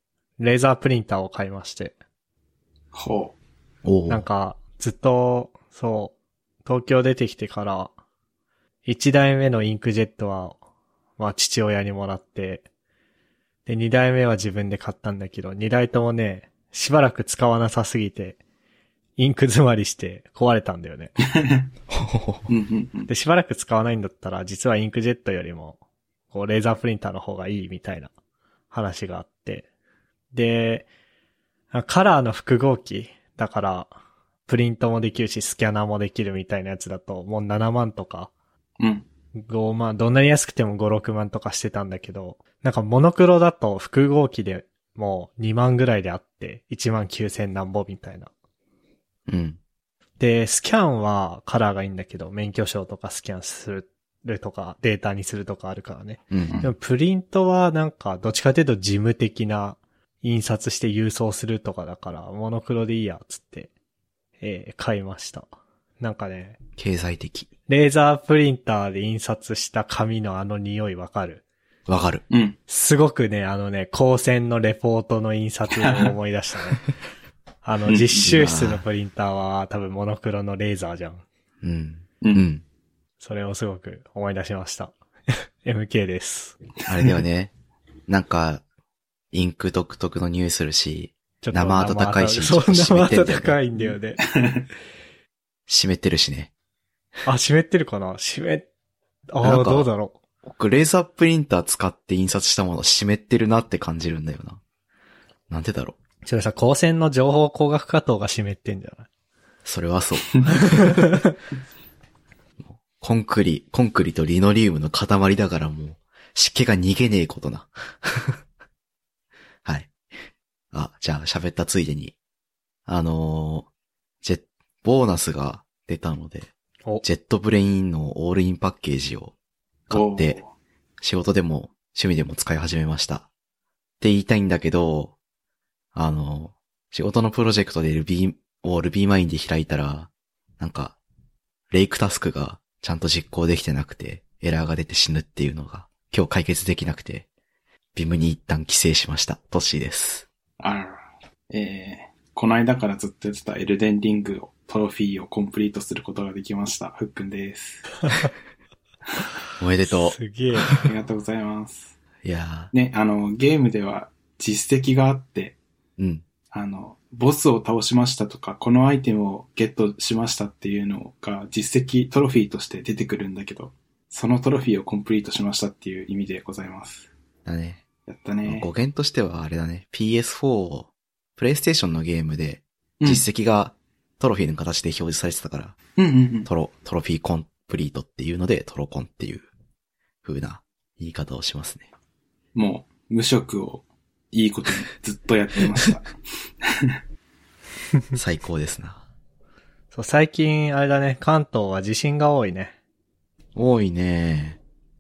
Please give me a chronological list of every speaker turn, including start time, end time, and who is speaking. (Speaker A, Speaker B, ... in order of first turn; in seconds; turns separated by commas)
Speaker A: 0.4-1.9, Speaker B: 2.9-3.4, Speaker C: 3.9-4.3, Speaker A: 4.1-6.1, Speaker A: 6.7-7.9, Speaker A: 8.8-10.6, Speaker A: 11.2-12.7, Speaker A: 13.7-18.4, Speaker A: 19.2-21.2, Speaker B: 21.4-21.7, Speaker C: 21.9-22.5, Speaker B: 22.5-23.1, Speaker A: 23.1-25.8, Speaker A: 26.3-28.1, Speaker A: 28.7-29.7, Speaker A: 30.3-30.9, Speaker A: 31.7-33.9, Speaker A: 34.5-38.3, Speaker B: 38.8-39.1, Speaker A: 39.4-48.3, Speaker C: 49.3-49.6, Speaker A: 50.2-63.7, Speaker C: 56.3-56.6, Speaker A: 64.4-65.5, Speaker A: 66.0-66.6, Speaker C: 66.8-67.5, Speaker A: 67.7-71.4, Speaker C: 71.9-72.2, Speaker B: 72.3-72.6, Speaker A: 72.7-76.8, Speaker B: 75.7-76.1, Speaker A: 77.6-81.2, Speaker B: 77.9-78.3, Speaker C: 78.2-78.8, Speaker C: 81.6-82.6, Speaker A: 83.2-86.6, Speaker C: 86.9-87.5, Speaker C: 88.1-88.6, Speaker C: 89.3-93.6, Speaker A: 91.4-94.2, Speaker B: 94.2-94.7, Speaker C: 95.7-96.5, Speaker A: 97.3-98.7, Speaker A: 99.3-100.2, Speaker C: 99.4-99.9, Speaker C: 100.4-104.6, Speaker C: 105.5-106.0, Speaker A: 106.2-109.1, Speaker C: 109.7-111.0, Speaker A: 110.8-111.3, Speaker C: 112.6-118.4, Speaker C: 119.7-119.9, Speaker C: 120.7-122.2, Speaker C: 122.9-123.7, Speaker C: 124.2-126.5, Speaker C: 127.0-129.3, Speaker C: 129.9-130.4, Speaker B: 129.9-130.5, Speaker C: 131.0-133.3, Speaker C: 134.0-135.2, Speaker C: 135.9-141.0, Speaker C: 141.7-147.3, Speaker C: 147.9-150.3, Speaker B: 150.6-151.0, Speaker B: 151.5-158.0, Speaker C: 159.6-160.7, Speaker A: 159.9-160.9, Speaker B: 160.8-161.9, Speaker C: 162.2-162.7, Speaker B: 162.7-165.6, Speaker C: 166.0-166.2, Speaker B: 166.5-177.1, Speaker C: 177.5-177.8, Speaker B: 178.1-178.7, Speaker C: 178.4-185.8, Speaker B: 186.0-186.5, Speaker C: 186.4-189.5, Speaker C: 190.2-191.9, Speaker B: 192.6-196.1, Speaker B: 196.7-196.9, Speaker C: 198.2-199.0, Speaker A: 199.9-202.7, Speaker C: 203.6-204.6